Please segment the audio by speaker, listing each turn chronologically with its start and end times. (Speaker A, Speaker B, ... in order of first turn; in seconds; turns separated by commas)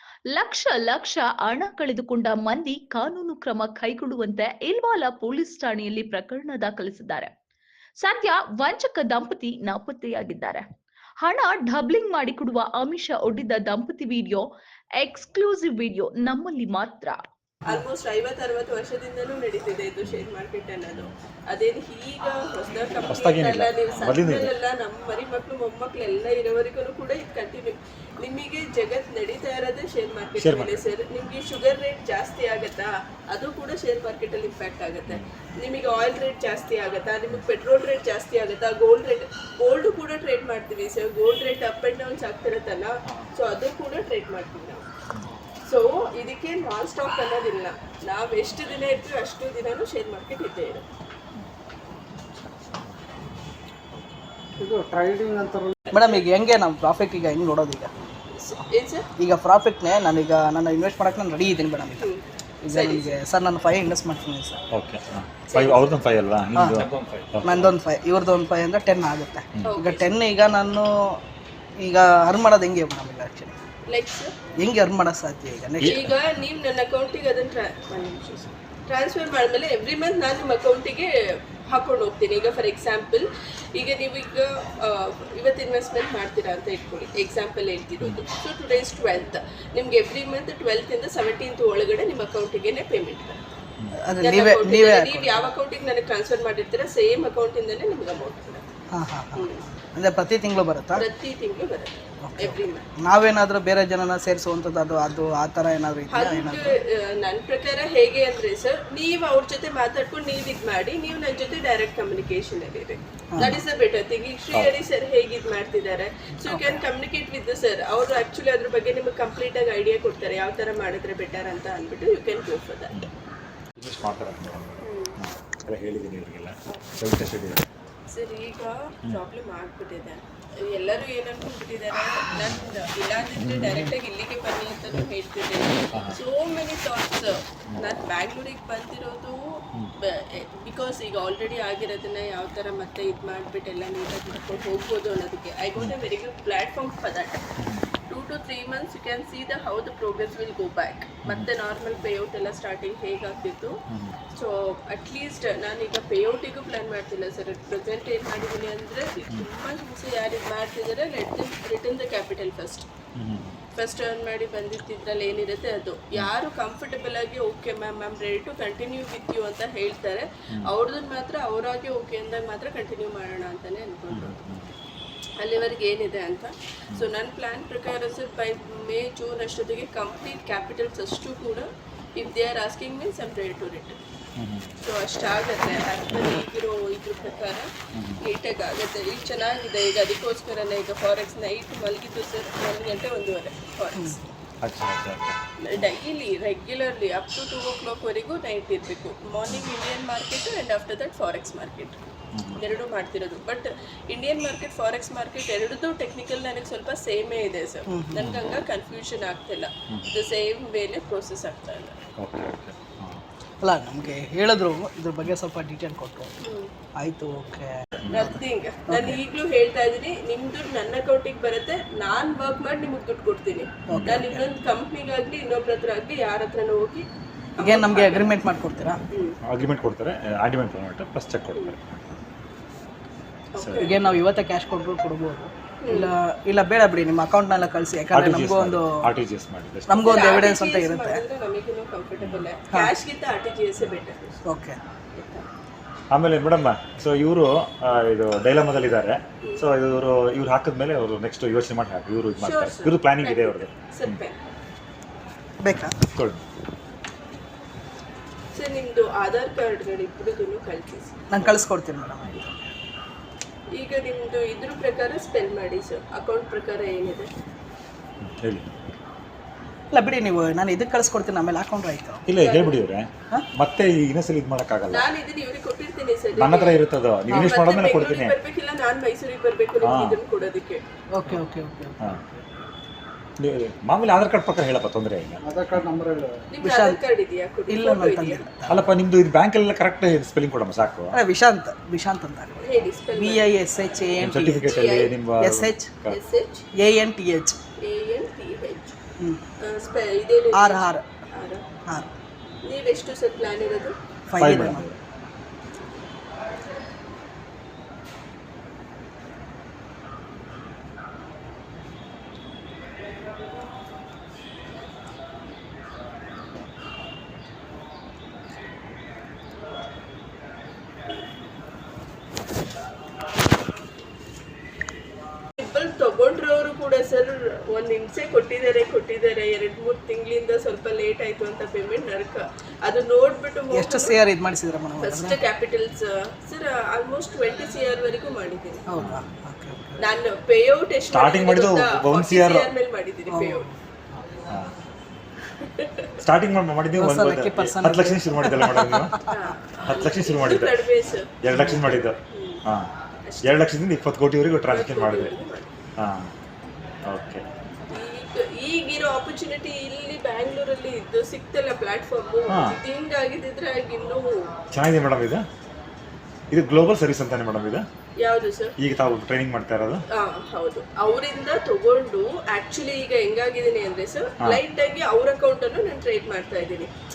Speaker A: 0.3-7.3, Speaker A: 8.0-10.6, Speaker A: 11.2-14.5, Speaker A: 15.0-17.2, Speaker B: 17.6-44.9, Speaker C: 23.1-24.5, Speaker C: 30.4-30.9, Speaker B: 45.6-50.9, Speaker D: 54.6-55.7, Speaker E: 55.9-57.9, Speaker B: 58.3-59.1, Speaker E: 59.2-62.1, Speaker B: 62.0-63.2, Speaker E: 62.6-64.6, Speaker C: 64.7-67.7, Speaker B: 65.5-65.8, Speaker E: 66.5-66.9, Speaker E: 67.4-71.2, Speaker B: 69.6-70.1, Speaker E: 71.8-73.6, Speaker B: 73.9-74.3, Speaker E: 74.6-76.1, Speaker C: 75.8-76.2, Speaker B: 75.8-81.1, Speaker B: 81.7-93.4, Speaker C: 88.0-88.3, Speaker E: 94.0-95.5, Speaker B: 94.2-98.7, Speaker E: 98.9-101.0, Speaker B: 99.3-99.6, Speaker B: 100.9-102.8, Speaker E: 102.2-106.8, Speaker B: 106.1-122.9, Speaker E: 116.4-116.8, Speaker C: 123.8-127.6, Speaker B: 124.8-125.2, Speaker B: 128.1-147.4, Speaker C: 133.3-133.9, Speaker C: 135.9-136.2, Speaker C: 147.6-147.8, Speaker B: 148.1-153.8, Speaker B: 154.3-162.9, Speaker C: 163.2-163.6, Speaker B: 163.8-174.3, Speaker C: 174.1-174.7, Speaker B: 175.4-184.0, Speaker C: 184.4-184.8, Speaker B: 184.8-194.2, Speaker C: 187.9-188.2, Speaker E: 193.9-194.3, Speaker C: 194.6-195.9, Speaker B: 195.6-202.0, Speaker C: 202.3-202.6, Speaker B: 202.6-212.0, Speaker E: 207.9-208.2, Speaker C: 208.2-208.4, Speaker C: 212.2-213.2, Speaker E: 213.6-216.3, Speaker B: 216.4-216.7, Speaker E: 217.0-218.3, Speaker C: 218.0-218.3, Speaker B: 218.1-227.1, Speaker E: 218.9-219.2, Speaker E: 223.9-224.5, Speaker C: 223.9-224.2, Speaker B: 227.6-228.3, Speaker E: 227.6-229.0, Speaker B: 229.1-229.4, Speaker C: 229.5-232.1, Speaker B: 233.5-234.0, Speaker C: 233.6-234.2, Speaker E: 233.8-239.0, Speaker B: 235.8-236.1, Speaker C: 238.1-240.3, Speaker E: 239.9-241.2, Speaker B: 240.0-244.4, Speaker C: 242.2-242.5, Speaker E: 244.4-244.8, Speaker B: 245.1-245.5, Speaker C: 246.1-254.2, Speaker B: 249.4-249.7, Speaker B: 252.4-254.4, Speaker E: 255.6-256.0, Speaker C: 256.1-256.4, Speaker B: 258.5-261.1, Speaker E: 261.3-262.7, Speaker B: 263.7-267.3, Speaker C: 268.2-268.7, Speaker E: 269.9-272.2, Speaker C: 272.3-275.1, Speaker B: 272.4-272.8, Speaker B: 274.9-280.8, Speaker C: 276.4-278.3, Speaker E: 277.3-277.6, Speaker C: 279.8-280.2, Speaker E: 281.1-281.9, Speaker C: 283.4-285.9, Speaker D: 285.4-286.4, Speaker B: 286.5-288.4, Speaker E: 286.6-287.0, Speaker E: 287.7-288.9, Speaker C: 288.7-291.1, Speaker E: 291.1-294.9, Speaker B: 292.6-293.5, Speaker C: 294.2-296.2, Speaker B: 294.7-295.2, Speaker E: 295.4-295.9, Speaker B: 296.1-296.6, Speaker E: 296.7-297.6, Speaker B: 297.8-298.9, Speaker B: 299.6-301.6, Speaker E: 300.5-301.0, Speaker E: 301.9-302.1, Speaker B: 302.6-303.9, Speaker E: 304.3-304.9, Speaker C: 304.4-305.0, Speaker B: 325.6-334.2, Speaker E: 333.7-335.4, Speaker B: 335.0-338.9, Speaker E: 338.9-340.0, Speaker C: 339.0-339.3, Speaker B: 340.0-343.6, Speaker C: 341.1-342.7, Speaker E: 343.3-343.7, Speaker B: 345.6-346.1, Speaker C: 346.2-349.1, Speaker E: 346.9-349.3, Speaker B: 349.3-351.4, Speaker C: 349.8-350.8, Speaker C: 351.4-352.9, Speaker E: 351.5-352.0, Speaker B: 352.3-352.6, Speaker B: 353.2-353.6, Speaker C: 353.5-355.3, Speaker B: 354.7-355.7, Speaker C: 356.0-356.3, Speaker C: 357.1-357.4, Speaker B: 357.9-364.5, Speaker C: 362.5-362.8, Speaker C: 364.7-365.4, Speaker C: 366.5-367.8, Speaker B: 368.2-368.7, Speaker C: 368.8-370.0, Speaker B: 370.1-376.9